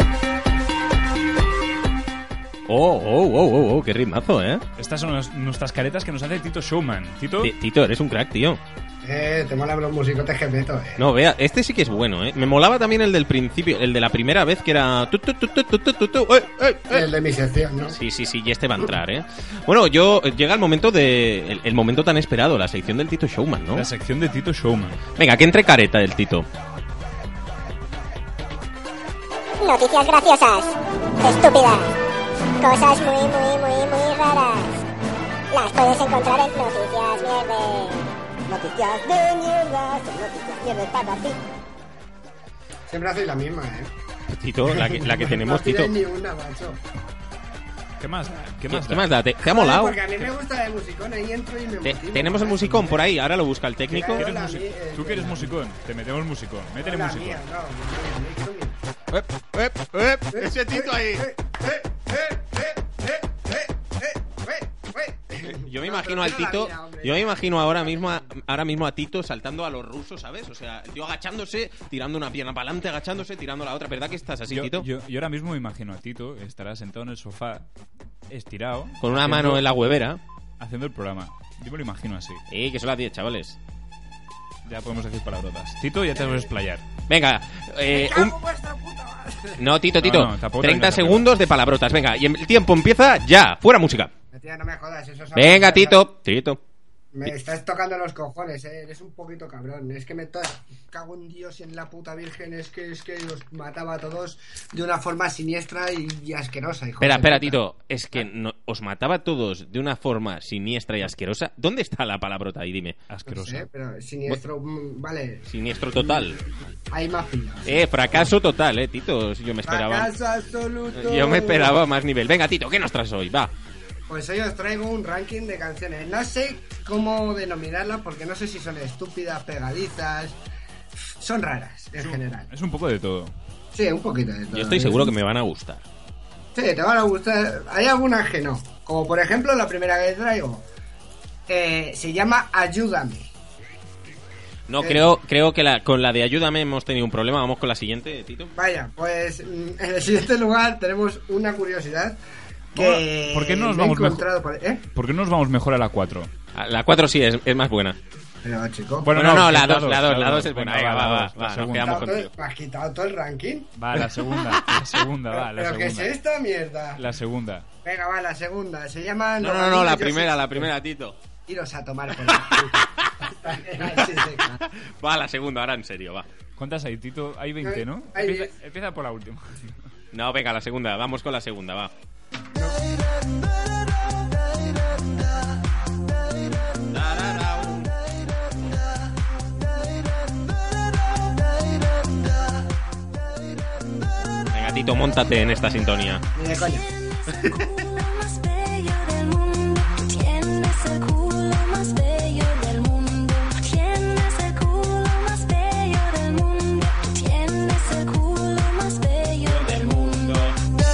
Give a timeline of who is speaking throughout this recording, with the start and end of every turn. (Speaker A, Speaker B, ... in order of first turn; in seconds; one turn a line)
Speaker A: 2.7-4.6
Speaker B: 4.8-7.5
Speaker A: 7.4-8.6
Speaker C: 9.0-11.0
Speaker A: 11.0-17.1
Speaker C: 16.9-17.9
Speaker A: 17.9-23.9
Speaker B: 23.7-25.0
Speaker A: 25.2-26.4
Speaker D: 29.6-31.9
Speaker D: 32.6-34.7
Speaker D: 35.5-41.4
Speaker C: 42.9-43.9
Speaker A: 44.3-45.9
Speaker C: 44.7-46.8
Speaker B: 48.0-49.1
Speaker A: 48.7-50.0
Speaker C: 49.4-53.1
Speaker A: 51.8-54.3
Speaker C: 53.9-55.6
Speaker B: 54.0-57.4
Speaker C: 56.8-58.8
Speaker A: 59.1-61.2
Speaker C: 60.3-68.2
Speaker A: 65.4-74.9
Speaker B: 74.5-77.7
Speaker B: 78.3-79.6
Speaker A: 79.0-80.2
Speaker B: 80.6-82.4
Speaker A: 82.5-83.6
Speaker B: 84.7-86.8
Speaker C: 86.2-86.5
Speaker A: 87.1-88.3
Speaker C: 87.9-89.7
Speaker A: 89.6-94.1
Speaker B: 90.0-91.3
Speaker C: 94.3-96.0
Speaker A: 95.3-96.6
Speaker C: 97.1-107.6
Speaker A: 107.0-113.0
Speaker B: 113.1-113.7
Speaker C: 113.3-115.4
Speaker A: 115.5-116.4
Speaker C: 116.0-116.3
Speaker C: 116.9-117.8
Speaker A: 117.6-120.1
Speaker C: 119.6-121.8
Speaker A: 120.9-123.5
Speaker C: 124.1-130.4
Speaker C: 131.2-132.5
Speaker B: 132.0-133.3
Speaker C: 133.7-135.1
Speaker A: 134.5-135.8
Speaker C: 136.5-140.6
Speaker C: 141.5-143.3
Speaker A: 144.7-148.5
Speaker C: 144.8-145.1
Speaker C: 148.5-152.2
Speaker B: 152.7-154.2
Speaker C: 152.7-154.8
Speaker B: 154.9-156.3
Speaker A: 156.5-158.0
Speaker C: 158.4-159.1
Speaker B: 159.0-162.0
Speaker A: 159.1-162.3
Speaker C: 161.7-163.7
Speaker B: 163.8-166.1
Speaker C: 165.3-167.0
Speaker B: 166.9-167.7
Speaker C: 167.8-170.7
Speaker A: 169.4-171.2
Speaker C: 171.5-174.6
Speaker A: 172.3-173.0
Speaker A: 175.0-176.3
Speaker B: 176.6-179.7
Speaker C: 177.6-178.5
Speaker A: 180.1-181.9
Speaker A: 186.9-187.9
Speaker A: 194.5-196.2
Speaker C: 196.3-196.8
Speaker E: 197.3-210.4
Speaker A: 209.4-210.6